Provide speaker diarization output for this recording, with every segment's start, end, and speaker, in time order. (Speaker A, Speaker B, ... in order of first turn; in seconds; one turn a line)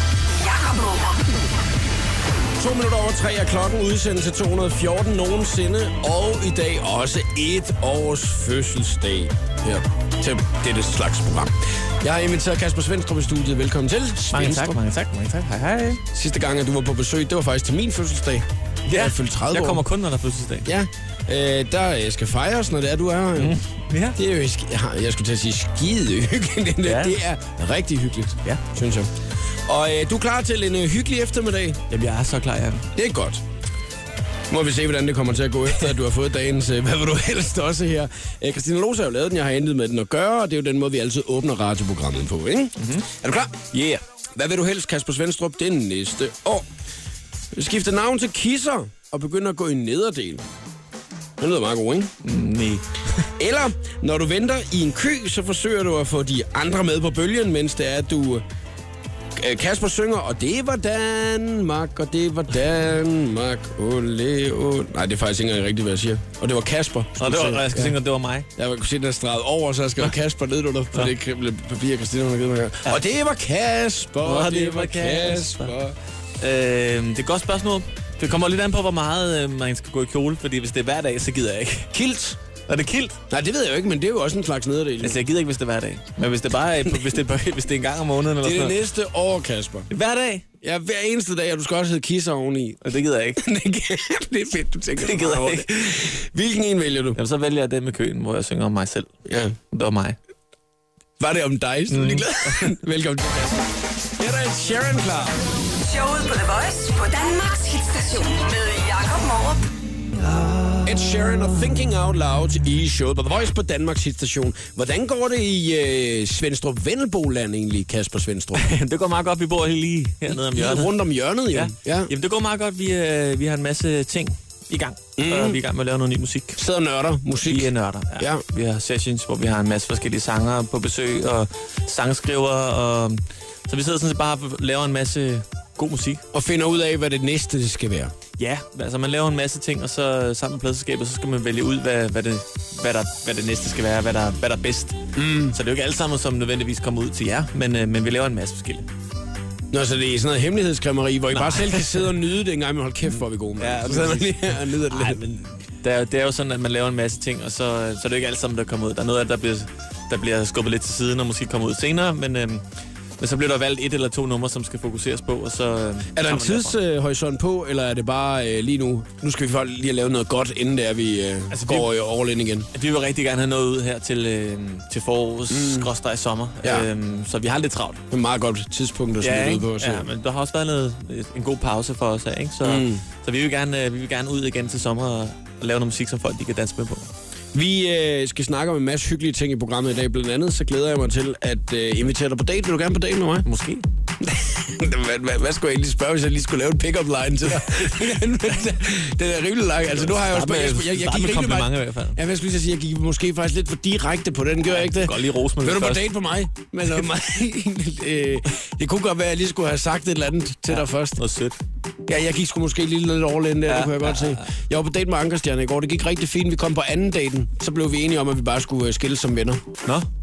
Speaker A: 0.3-1.3
Speaker B: 2.6-14.8
Speaker C: 14.3-16.0
Speaker B: 16.1-19.9
Speaker C: 18.9-20.7
Speaker B: 20.7-23.6
Speaker C: 23.4-24.2
Speaker B: 24.1-29.1
Speaker C: 26.8-27.2
Speaker B: 29.7-31.8
Speaker C: 31.9-32.9
Speaker B: 33.0-33.4
Speaker B: 34.5-43.6
Speaker C: 42.8-43.1
Speaker C: 43.7-44.0
Speaker B: 44.4-46.7
Speaker B: 47.5-50.5
Speaker B: 51.4-52.1
Speaker C: 52.2-52.9
Speaker B: 53.4-58.4
Speaker B: 59.4-68.0
Speaker C: 67.2-68.5
Speaker B: 68.6-76.0
Speaker C: 74.2-75.8
Speaker C: 76.4-81.9
Speaker B: 81.9-82.4
Speaker C: 82.7-83.2
Speaker B: 83.3-85.2
Speaker C: 85.0-88.8
Speaker B: 88.4-89.9
Speaker C: 89.9-90.5
Speaker B: 90.6-92.8
Speaker C: 92.8-93.4
Speaker B: 93.4-97.2
Speaker C: 95.0-95.7
Speaker C: 97.2-99.1
Speaker B: 99.3-99.6
Speaker C: 99.7-100.2
Speaker B: 101.2-105.4
Speaker C: 101.9-102.7
Speaker A: 105.8-109.6
Speaker B: 110.8-118.7
Speaker C: 118.5-121.0
Speaker B: 120.3-122.1
Speaker C: 121.5-126.6
Speaker B: 125.2-125.6
Speaker B: 126.6-128.4
Speaker C: 127.5-136.2
Speaker B: 136.3-138.1
Speaker C: 138.4-148.9
Speaker B: 145.2-145.6
Speaker B: 149.7-155.4
Speaker C: 151.3-152.1
Speaker C: 153.6-162.6
Speaker C: 163.2-166.8
Speaker B: 166.1-172.7
Speaker C: 171.5-171.9
Speaker C: 172.7-178.0
Speaker B: 175.5-175.9
Speaker B: 178.1-180.1
Speaker C: 179.2-187.1
Speaker B: 182.6-183.0
Speaker B: 187.5-193.5
Speaker C: 193.4-193.8
Speaker B: 194.2-211.2
Speaker C: 199.9-202.2
Speaker C: 204.7-206.1
Speaker C: 210.7-211.6
Speaker B: 212.1-219.6
Speaker C: 213.7-214.5